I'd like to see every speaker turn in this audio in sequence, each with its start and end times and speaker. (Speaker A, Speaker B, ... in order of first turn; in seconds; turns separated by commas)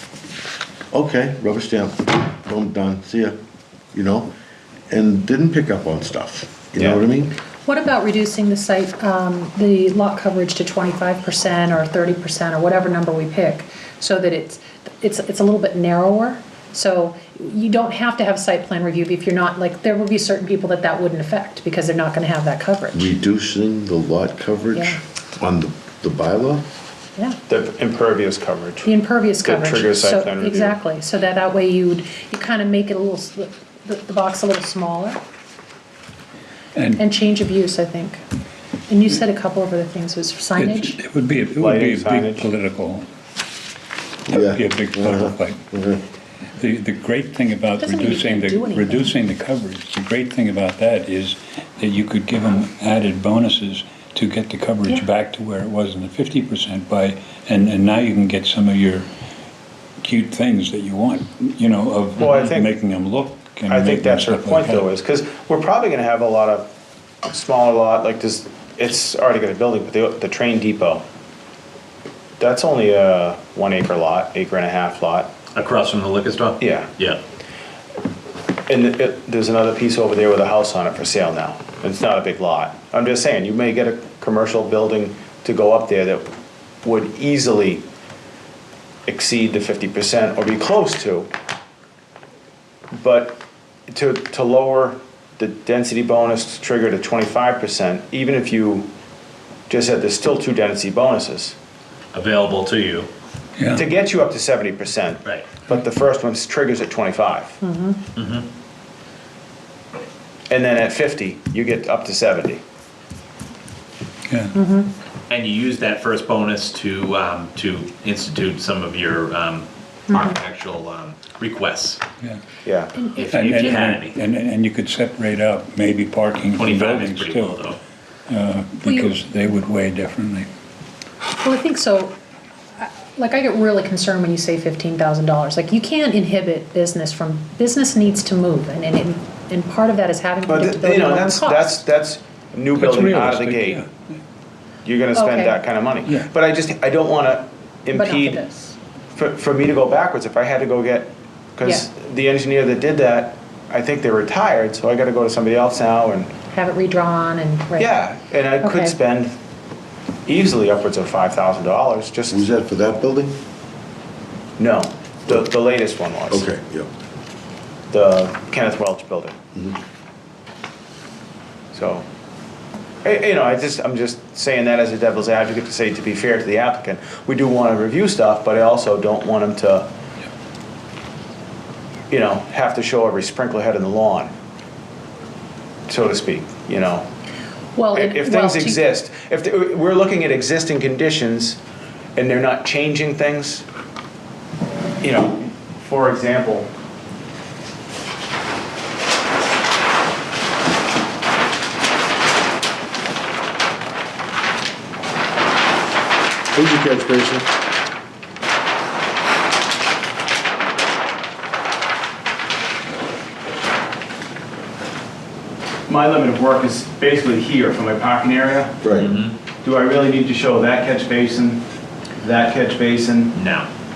Speaker A: 0.9-3.4, Speaker A: 3.9-4.3, Speaker A: 4.9-7.3, Speaker B: 7.7-23.1, Speaker A: 22.9-26.7, Speaker B: 24.7-25.0, Speaker C: 27.5-28.9, Speaker B: 28.8-35.2, Speaker C: 29.4-30.8, Speaker D: 36.8-37.0, Speaker B: 37.0-38.2, Speaker B: 38.9-41.0, Speaker D: 40.5-43.1, Speaker C: 41.6-42.5, Speaker A: 44.3-46.0, Speaker D: 44.3-45.7, Speaker D: 46.5-59.1, Speaker B: 47.8-49.1, Speaker D: 60.0-64.9, Speaker C: 62.2-62.7, Speaker C: 63.7-66.7, Speaker C: 67.2-71.0, Speaker C: 72.4-75.3, Speaker E: 75.5-77.2, Speaker C: 76.6-76.9, Speaker C: 78.7-86.3, Speaker C: 86.8-87.8, Speaker C: 89.1-91.3, Speaker C: 92.9-98.9, Speaker C: 99.7-101.5, Speaker E: 102.1-103.1, Speaker D: 103.6-103.8, Speaker C: 103.7-107.6, Speaker E: 105.2-105.5, Speaker B: 107.6-108.0, Speaker E: 108.1-108.5, Speaker C: 110.5-112.6, Speaker D: 114.3-114.5, Speaker B: 114.5-114.9, Speaker E: 115.3-122.0, Speaker B: 120.1-120.4, Speaker C: 122.6-122.9, Speaker B: 122.9-123.8, Speaker E: 123.2-124.2, Speaker D: 123.3-127.7, Speaker E: 126.5-127.8, Speaker D: 128.3-130.5, Speaker B: 128.8-129.1, Speaker B: 131.4-132.1, Speaker B: 132.8-141.8, Speaker C: 140.5-143.8, Speaker D: 142.7-144.1, Speaker C: 144.8-148.4, Speaker B: 145.1-145.6, Speaker B: 147.9-148.8, Speaker C: 149.1-156.4, Speaker B: 151.6-151.9, Speaker B: 156.5-159.0, Speaker C: 157.8-159.3, Speaker C: 160.2-162.6, Speaker A: 162.3-163.4, Speaker C: 164.6-166.5, Speaker A: 166.3-166.9, Speaker C: 167.9-169.3, Speaker C: 171.7-172.0, Speaker C: 173.0-179.9, Speaker C: 182.1-184.3, Speaker C: 185.9-187.1, Speaker B: 187.8-188.8, Speaker C: 187.9-191.6, Speaker C: 192.2-193.6, Speaker C: 195.0-196.7, Speaker A: 206.5-207.5, Speaker C: 215.9-218.8, Speaker A: 218.8-219.1, Speaker E: 218.9-219.3, Speaker C: 219.6-221.6, Speaker C: 222.2-223.3, Speaker E: 223.3-223.7